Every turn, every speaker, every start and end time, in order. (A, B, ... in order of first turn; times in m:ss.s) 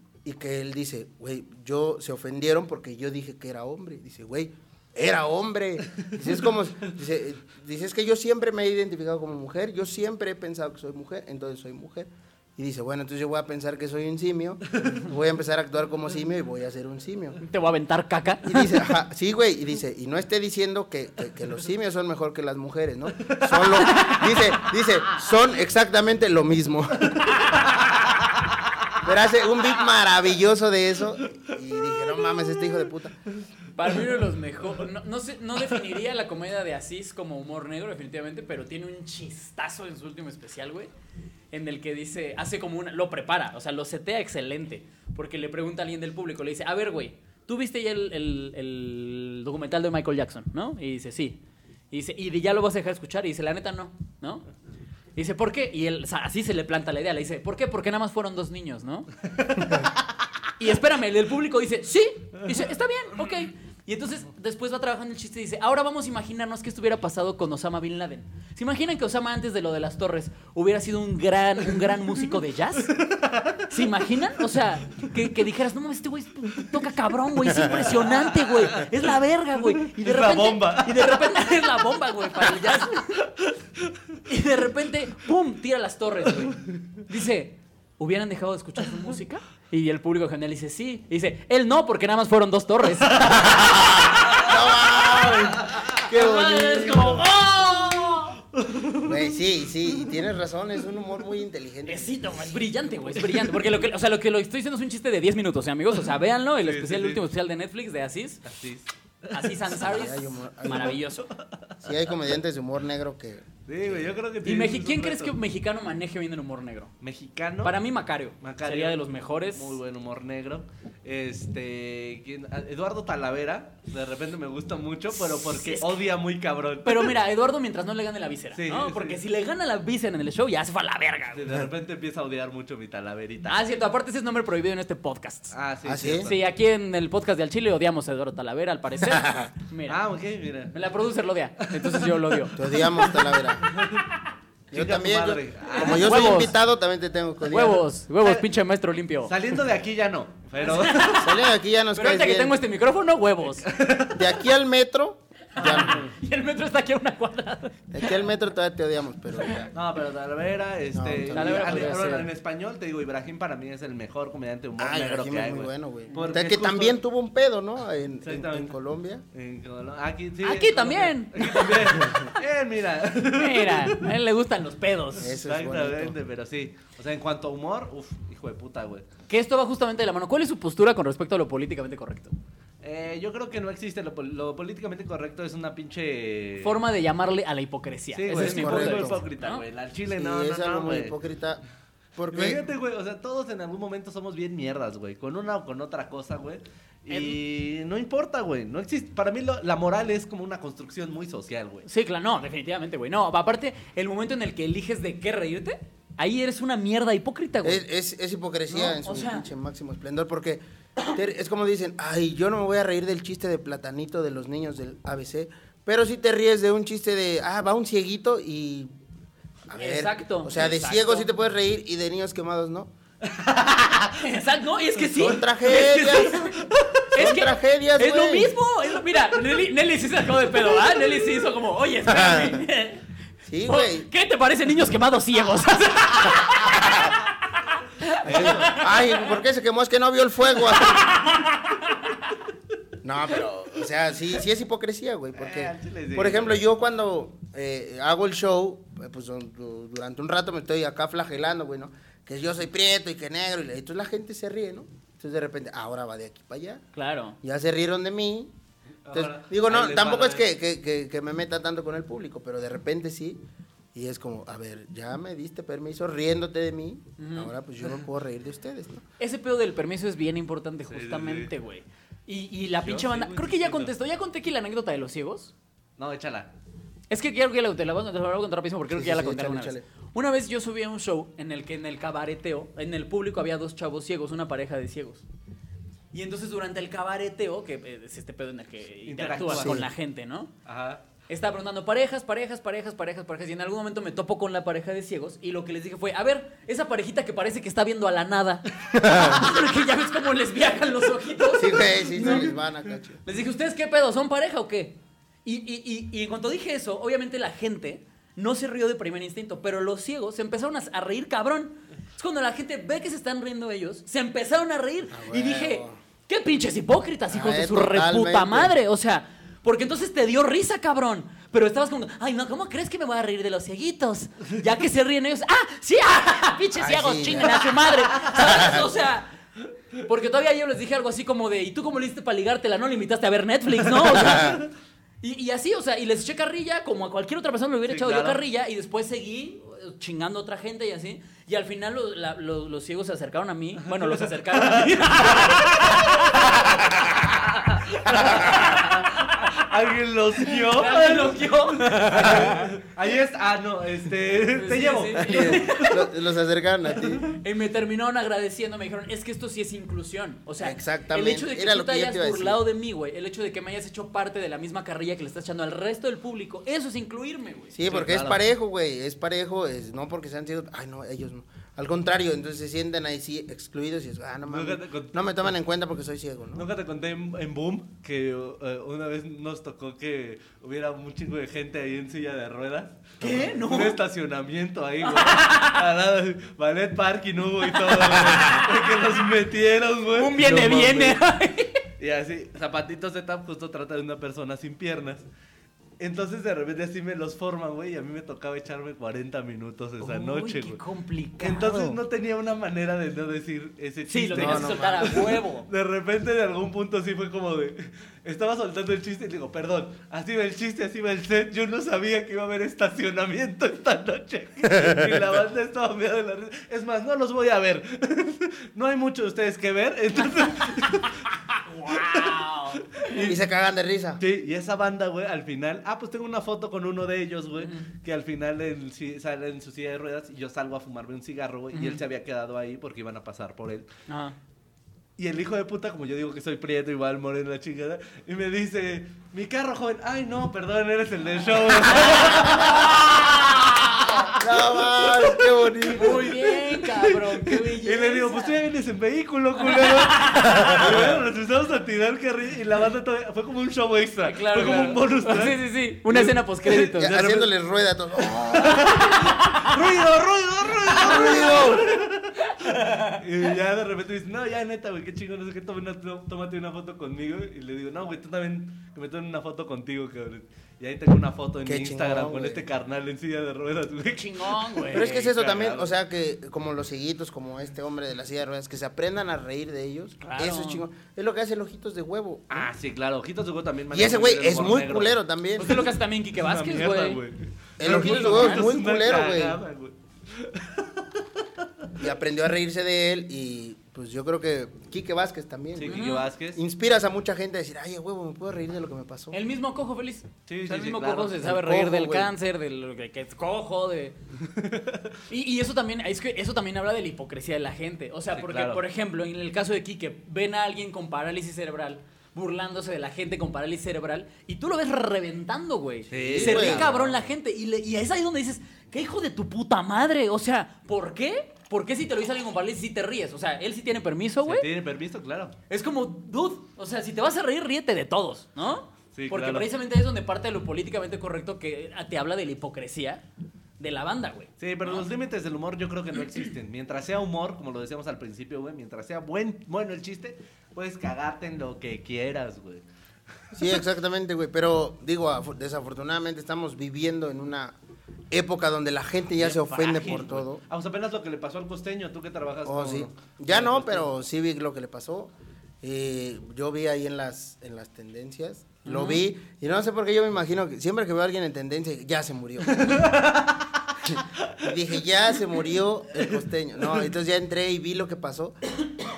0:00.2-0:17.4 A
0:06.0-0:06.3 B
0:17.4-0:18.8 C
0:18.4-0:27.3 A
0:23.2-0:24.1 B
0:23.9-0:24.2 C
0:27.2-0:28.4 B
0:29.0-0:33.2 A
0:33.8-0:40.9 C
0:41.5-0:51.4 C
0:51.9-0:54.5 C
0:55.2-0:59.1 C
0:59.4-0:59.8 B
1:00.6-1:13.0 C
1:12.9-1:13.8 B
1:13.7-1:23.3 C
1:17.7-1:18.9 B
1:19.6-1:21.3 B
1:23.5-1:23.9 B
1:24.3-1:34.6 C
1:33.2-1:34.4 B
1:34.3-1:37.3 A
1:35.3-1:35.9 B
1:36.0-1:38.4 C
1:38.5-1:39.3 B
1:39.0-1:42.6 A
1:41.8-1:48.5 C
1:43.2-1:43.5 B
1:46.6-1:47.2 B
1:48.5-1:49.7 B
1:49.3-1:51.3 C
1:49.7-1:51.0 A
1:51.3-1:51.8 B
1:51.8-1:54.1 A
1:53.7-1:55.4 B
1:54.4-1:56.9 C
1:57.0-1:57.8 B
1:57.6-1:59.8 C
1:58.4-2:07.2 B
2:05.2-2:05.9 C
2:06.8-2:11.6 C
2:08.5-2:09.2 B
2:11.3-2:13.6 B
2:13.5-2:15.6 C
2:15.5-2:16.4 B
2:15.9-2:16.3 A
2:16.2-2:20.0 C
2:19.1-2:19.5 A
2:19.9-2:20.8 B
2:20.7-2:23.1 C
2:21.6-2:22.4 B
2:22.6-2:23.7 A
2:23.6-2:24.1 B
2:24.7-2:26.4 B
2:24.7-2:27.9 A
2:25.7-2:26.6 C
2:27.5-2:29.4 C
2:29.3-2:31.3 B
2:30.6-2:31.4 C
2:31.1-2:32.6 A
2:31.9-2:33.7 C
2:33.6-2:34.3 B
2:34.1-2:36.0 A
2:35.6-2:37.9 C
2:35.6-2:36.1 B
2:37.9-2:39.7 A
2:39.7-2:47.0 B
2:40.9-2:42.1 A
2:41.3-2:42.3 C
2:44.8-2:49.2 A
2:48.2-2:48.8 B
2:49.3-2:54.1 B
2:50.4-2:52.2 C
2:53.3-2:55.4 C
2:55.2-2:56.2 A
2:55.3-2:59.1 B
2:59.3-3:02.3 C
3:02.8-3:06.8 B
3:06.6-3:09.6 C
3:08.2-3:11.2 B
3:08.3-3:09.2 A
3:10.1-3:11.6 A
3:12.2-3:12.6 A
3:12.3-3:21.9 B
3:17.1-3:17.4 C
3:21.9-3:27.8 C
3:27.6-3:38.9 A
3:28.7-3:29.5 C
3:39.7-3:42.9 A
3:39.8-3:41.3 C
3:43.2-3:44.2 B
3:44.2-3:46.6 C
3:45.0-3:46.4 A
3:45.7-3:47.0 B
3:47.1-3:48.5 A
3:47.1-3:53.0 C
3:52.1-3:52.6 A
3:53.5-3:54.1 A
3:53.7-3:57.2 C
3:57.7-3:59.1 C
3:58.2-3:58.8 B
3:58.2-4:01.1 A
4:00.7-4:02.2 C
4:03.0-4:16.8 A
4:05.4-4:06.6 B
4:16.9-4:17.4 C
4:17.4-4:18.5 A
4:19.1-4:20.5 B
4:19.1-4:23.4 A
4:23.9-4:29.0 A
4:27.2-4:27.5 C
4:29.2-4:35.5 C
4:30.9-4:31.5 B
4:32.8-4:33.9 B
4:36.0-4:36.5 B
4:37.1-4:45.2 C
4:38.9-4:39.9 A
4:46.1-4:50.5 C
4:49.1-4:49.8 B
4:49.5-4:49.9 A
4:50.6-4:51.0 B
4:51.3-5:02.6 C
4:58.9-4:59.4 A
5:01.6-5:03.2 A
5:02.2-5:02.5 B
5:03.2-5:29.3 C
5:15.1-5:16.0 A
5:17.3-5:18.8 A
5:26.8-5:27.7 A
5:27.9-5:28.8 B
5:28.4-5:28.8 A
5:30.0-5:34.6 C
5:34.0-5:34.7 B
5:34.2-5:34.6 A
5:35.2-5:46.9 C
5:37.9-5:38.4 B
5:43.8-5:56.0 B
5:47.8-5:49.5 C
5:50.5-5:52.7 C
5:54.5-5:56.0 C
5:55.3-5:57.3 A
5:57.0-5:57.3 B
5:57.3-6:07.8 C
6:00.6-6:02.6 A
6:07.7-6:16.7 A
6:07.9-6:08.4 B
6:14.5-6:15.4 B
6:16.6-6:31.2 B
6:23.2-6:24.0 C
6:25.0-6:25.8 C
6:30.2-6:31.8 C
6:30.5-6:31.0 A
6:32.0-6:35.2 B
6:36.0-6:40.8 B
6:40.0-6:42.0 C
6:41.4-7:01.2 B
6:44.1-6:45.7 C
6:44.3-6:45.3 A
7:01.6-7:03.3 C
7:01.9-7:03.4 B
7:03.3-7:04.2 A
7:04.2-7:13.9 B
7:07.6-7:07.9 C
7:11.7-7:12.0 C
7:14.1-7:14.4 C
7:15.2-7:37.5 B
7:22.0-7:24.1 C
7:22.4-7:22.8 A
7:24.3-7:26.3 A
7:25.9-7:28.6 C
7:29.6-7:30.9 C
7:30.6-7:31.1 A
7:34.2-7:37.1 C
7:36.9-7:39.1 A
7:38.3-7:55.9 B
7:39.0-7:39.8 C
7:40.9-7:42.0 A
7:42.4-7:43.2 C
7:51.6-7:52.7 A
7:54.1-7:55.3 C
7:54.9-8:02.7 A
8:00.2-8:00.8 C
8:02.5-8:11.9 B
8:03.9-8:05.9 A
8:05.6-8:07.2 C
8:07.8-8:09.6 A
8:07.8-8:08.7 C
8:12.0-8:19.4 A
8:15.8-8:16.6 B
8:15.9-8:16.3 C
8:19.3-8:24.2 C
8:20.5-8:21.4 B
8:21.4-8:22.3 A
8:24.5-8:25.1 B
8:25.3-8:44.7 C
8:28.4-8:28.8 B
8:36.1-8:37.3 B
8:36.1-8:36.9 A
8:44.4-8:45.6 B
8:45.7-8:53.2 C
8:49.1-8:49.7 B
8:53.8-8:55.1 C
8:54.6-9:02.8 B
9:03.5-9:07.8 A
9:08.3-9:10.6 A
9:09.4-9:10.4 C
9:10.0-9:14.1 B
9:12.6-9:23.1 A
9:18.8-9:19.2 C
9:22.7-9:23.8 B
9:24.1-9:28.6 A
9:24.4-9:24.6 B